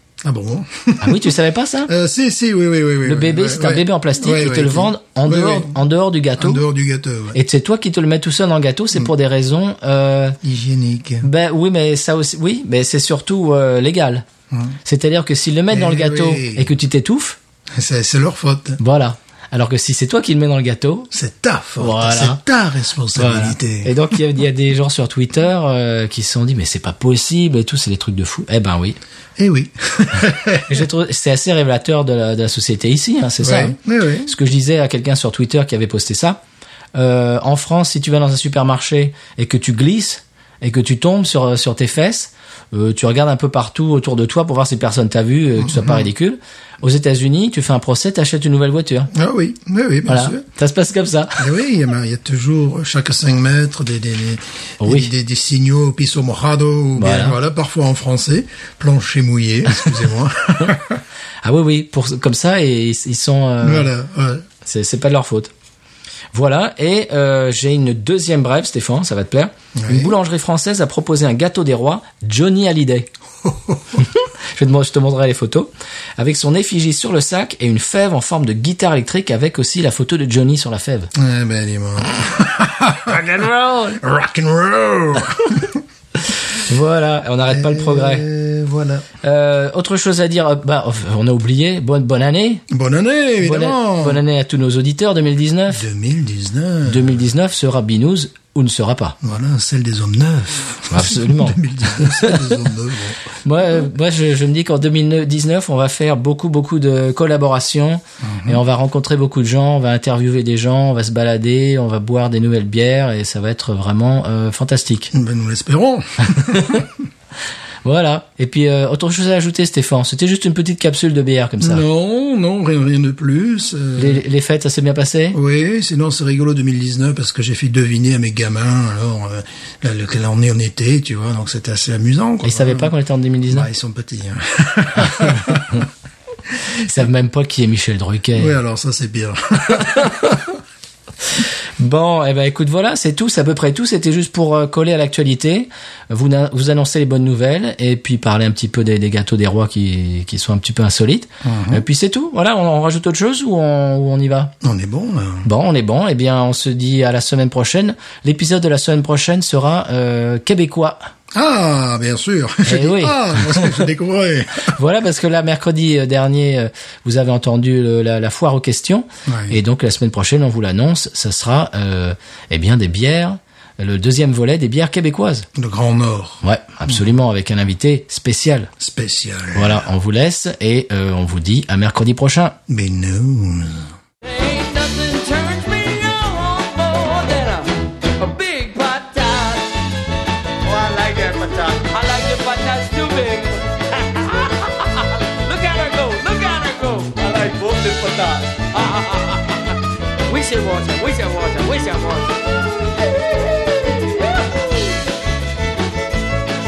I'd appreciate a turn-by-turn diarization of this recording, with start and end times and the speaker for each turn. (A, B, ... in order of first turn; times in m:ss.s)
0:00.2-0:01.3 A
0:01.0-0:01.9 B
0:01.9-0:05.8 A
0:03.0-0:06.6 B
0:06.4-0:07.4 A
0:07.3-0:10.4 B
0:10.4-0:11.3 A
0:11.2-0:14.2 B
0:14.5-0:14.8 A
0:14.8-0:17.4 B
0:15.7-0:16.7 A
0:17.7-0:18.8 A
0:18.8-0:21.1 B
0:21.1-0:24.0 A
0:21.8-0:22.4 B
0:23.2-0:29.0 B
0:29.4-0:30.8 A
0:30.7-0:36.4 B
0:33.4-0:34.3 A
0:37.0-0:49.1 B
0:45.6-0:46.1 A
0:49.1-0:50.4 A
0:50.1-0:51.5 B
0:51.4-1:01.0 A
0:54.8-0:55.1 B
0:57.0-0:57.4 B
1:01.4-1:03.9 B
1:03.6-1:04.4 A
1:04.6-1:05.5 B
1:06.3-1:13.1 B
1:09.8-1:10.1 A
1:13.4-1:13.8 A
1:14.0-1:21.1 B
1:21.2-1:23.3 A
1:23.1-1:24.0 B
1:24.0-1:25.8 A
1:26.3-1:28.3 B
1:27.5-1:29.1 A
1:29.2-1:32.6 B
1:32.7-1:34.2 A
1:33.4-1:35.8 B
1:35.7-1:37.2 A
1:36.9-1:39.2 B
1:39.2-1:43.2 A
1:40.9-1:42.5 B
1:43.4-1:55.1 B
1:48.2-1:48.6 A
1:55.1-1:56.9 A
1:56.4-1:56.9 B
1:57.8-2:01.8 B
2:01.6-2:04.2 A
2:04.0-2:05.4 B
2:05.3-2:12.9 A
2:12.4-2:13.7 B
2:13.5-2:15.8 A
2:15.0-2:15.8 B
2:16.8-2:18.6 B
2:18.4-2:20.3 A
2:19.8-2:20.4 B
2:21.8-2:34.5 B
2:31.4-2:31.8 A
2:34.6-2:35.5 A
2:35.4-2:41.0 B
2:41.3-2:44.7 A
2:42.6-2:43.8 B
2:44.7-2:55.5 B
2:49.3-2:49.6 A
2:55.6-2:56.4 A
2:56.4-2:58.7 B
2:58.8-2:59.8 A
2:59.6-3:02.6 B
3:02.7-3:03.9 A
3:04.2-3:09.8 C
3:10.6-3:22.6 C
3:23.4-3:24.4 C